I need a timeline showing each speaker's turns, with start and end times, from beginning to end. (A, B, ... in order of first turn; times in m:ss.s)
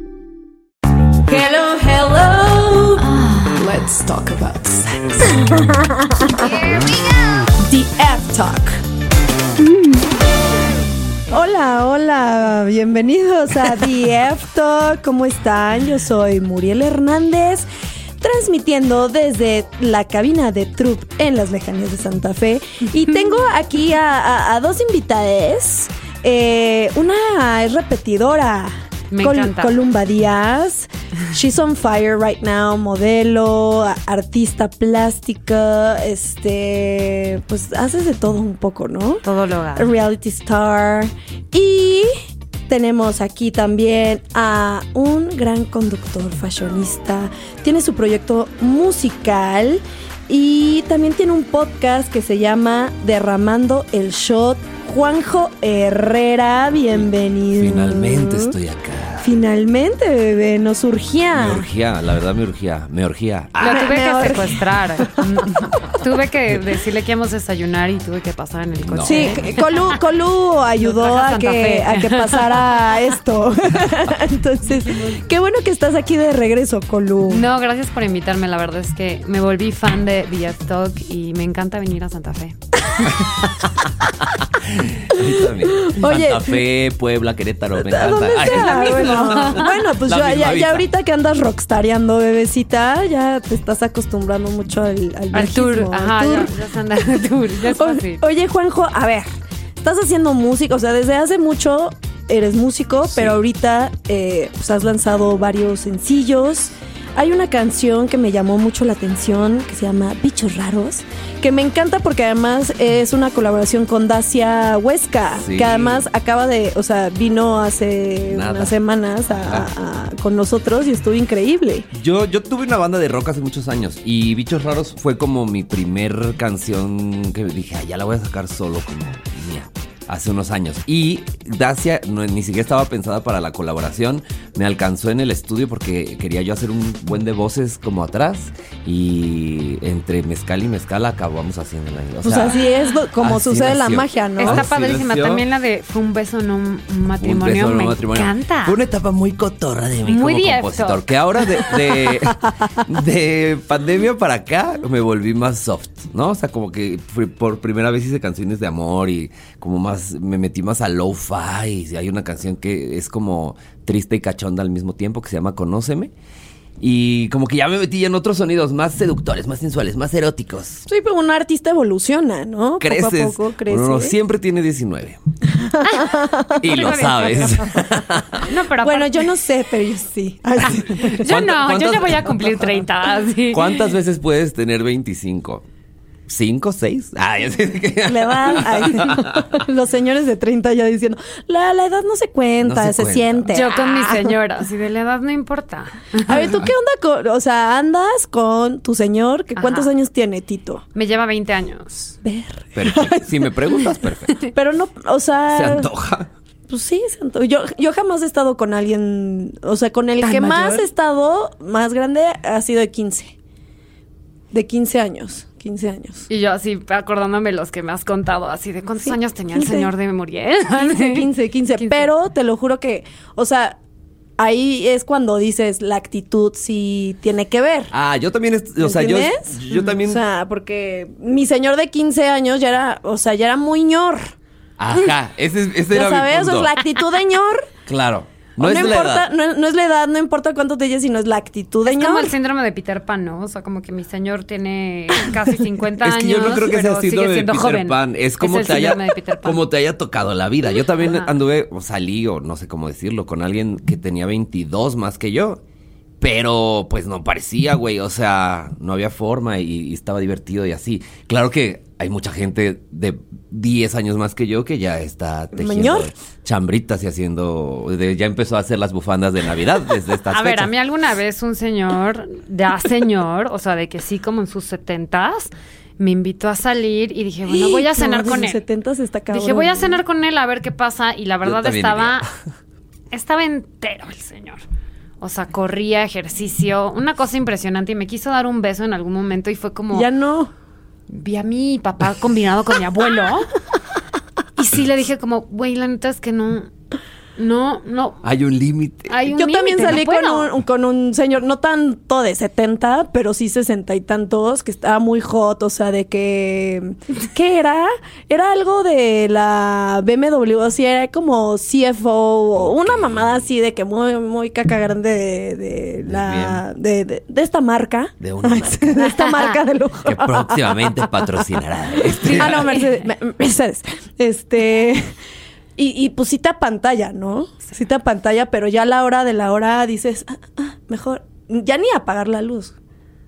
0:01.3-0:05.6 A
0:07.6-0:08.8 B
0:11.3-0:17.6 B
0:18.2-0:42.1 B
0:29.1-0:29.8 C
0:39.2-0:39.9 C
0:42.7-0:58.6 B
0:57.0-0:59.3 D
0:59.2-1:01.6 B
1:01.3-1:04.2 D
1:03.6-1:10.0 C
1:03.6-1:05.2 B
1:08.8-1:09.4 D
1:09.0-1:17.5 B
1:10.8-1:13.0 C
1:17.3-1:22.6 C
1:23.0-1:30.9 D
1:25.1-1:26.6 B
1:27.8-1:36.5 B
1:28.5-1:29.7 C
1:35.3-1:38.2 C
1:37.7-1:39.3 B
1:39.8-2:01.9 B
1:43.1-1:43.4 D
1:55.3-1:56.1 D
1:58.3-1:58.7 D
1:59.3-1:59.7 D
2:01.9-2:22.6 D
2:22.2-2:24.6 B
2:23.2-2:25.4 D
2:24.4-2:28.8 C
2:27.2-2:46.1 D
2:30.0-2:31.0 C
2:46.8-2:50.8 D
2:50.9-2:54.2 B
2:52.8-2:55.2 D
2:55.5-2:57.4 B
2:55.8-2:59.3 C
2:56.6-2:58.4 D
2:58.8-3:01.2 B
3:00.6-3:02.8 D
3:00.9-3:03.9 C
3:03.5-3:05.6 D
3:06.3-3:09.6 D
3:08.0-3:14.3 B
3:12.6-3:13.5 D
3:13.4-3:16.6 C
3:16.3-3:20.8 B
3:19.6-3:19.9 C
3:20.9-3:22.1 C
3:22.2-3:23.7 B
3:22.7-3:24.4 D
3:24.5-3:25.9 B
3:25.5-3:26.3 D
3:26.7-3:33.3 B
3:30.2-3:30.8 C
3:34.5-3:36.2 B
3:36.3-3:42.1 C
3:39.0-3:39.9 B
3:40.7-3:43.8 B
3:44.4-3:47.9 B
3:47.9-3:50.2 D
3:48.8-3:54.3 B
3:54.8-3:56.8 D
3:55.9-3:57.7 B
3:57.8-3:59.3 D
3:58.6-4:02.3 B
4:01.8-4:09.6 C
4:06.0-4:15.6 D
4:11.0-4:11.3 C
4:16.2-4:30.7 D
4:25.6-4:26.1 B
4:30.3-4:38.6 C
4:37.5-4:40.0 B
4:39.3-4:42.3 C
4:41.4-4:42.3 D
4:43.1-4:44.6 C
4:45.2-4:50.1 C
4:49.9-4:50.5 B
4:51.1-4:53.5 C
4:54.6-4:56.7 C
4:57.4-4:58.2 C
4:58.2-4:59.1 D
4:59.1-5:00.5 C
4:59.3-5:21.4 B
5:12.5-5:13.4 D
5:16.0-5:16.6 D
5:18.2-5:19.1 D
5:20.0-5:22.8 D
5:22.0-5:25.1 B
5:22.2-5:22.9 C
5:25.8-5:32.7 B